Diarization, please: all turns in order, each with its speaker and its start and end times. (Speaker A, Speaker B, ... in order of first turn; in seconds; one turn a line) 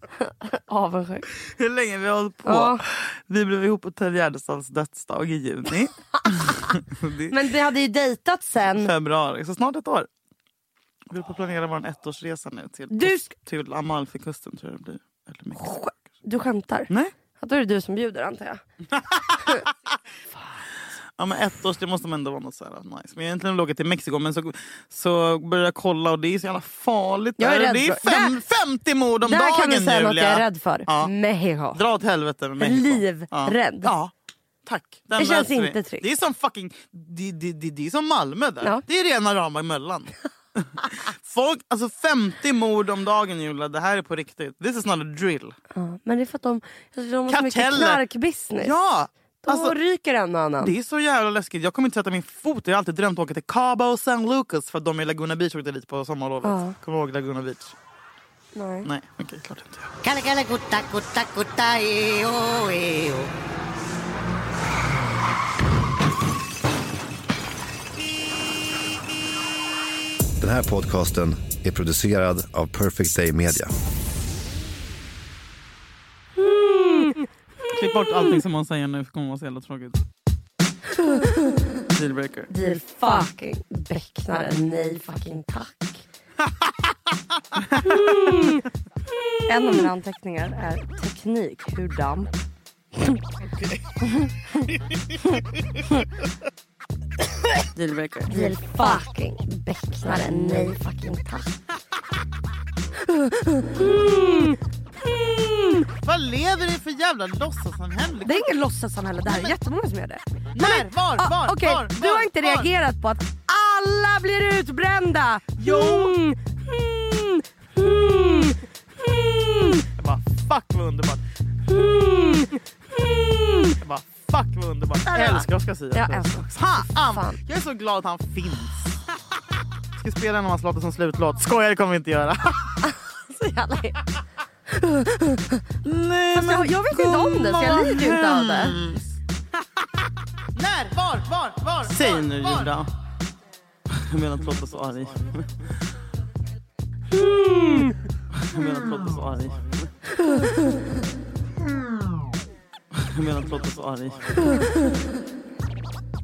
Speaker A: 0.2-1.3
Speaker B: 1.4-7.4
Speaker A: 2.4-2.8
Speaker A: 7.3-8.9
Speaker B: 8.7-10.1
Speaker B: 11.1-15.8
Speaker A: 12.9-13.3
Speaker A: 15.6-18.6
Speaker B: 18.9-19.7
Speaker A: 19.4-19.6
Speaker B: 21.2-31.1
Speaker A: 27.4-28.4
Speaker A: 29.2-31.8
Speaker B: 31.7-34.1
Speaker A: 32.6-33.9
Speaker B: 34.6-45.5
Speaker A: 35.1-36.1
Speaker A: 45.7-48.7
Speaker B: 47.3-48.0
Speaker B: 48.6-49.7
Speaker A: 49.4-50.7
Speaker B: 50.6-57.7
Speaker A: 56.4-56.8
Speaker A: 58.5-58.9
Speaker B: 58.8-59.9
Speaker C: 60.0-63.3
Speaker D: 70.4-73.7
Speaker A: 76.4-77.2
Speaker B: 77.7-80.0
Speaker A: 81.0-81.5
Speaker B: 81.9-82.5
Speaker A: 82.5-86.0
Speaker B: 87.5-88.5
Speaker A: 87.8-88.6
Speaker A: 89.5-92.3
Speaker B: 93.5-94.0
Speaker B: 94.6-95.8
Speaker B: 97.5-99.0
Speaker A: 98.3-101.5
Speaker B: 100.0-100.7
Speaker A: 103.0-105.8
Speaker B: 105.8-108.5
Speaker A: 108.2-119.8
Speaker B: 109.2-109.6
Speaker B: 110.5-112.7
Speaker B: 115.6-116.2
Speaker B: 119.9-121.2
Speaker A: 121.7-123.7
Speaker B: 123.7-128.9
Speaker A: 125.0-127.4
Speaker B: 129.9-132.9
Speaker A: 132.8-134.0
Speaker A: 134.7-135.6
Speaker B: 135.8-139.1
Speaker A: 136.3-138.8
Speaker B: 140.5-142.9
Speaker B: 143.9-145.7
Speaker A: 147.1-147.9
Speaker B: 148.3-149.9
Speaker B: 152.9-154.6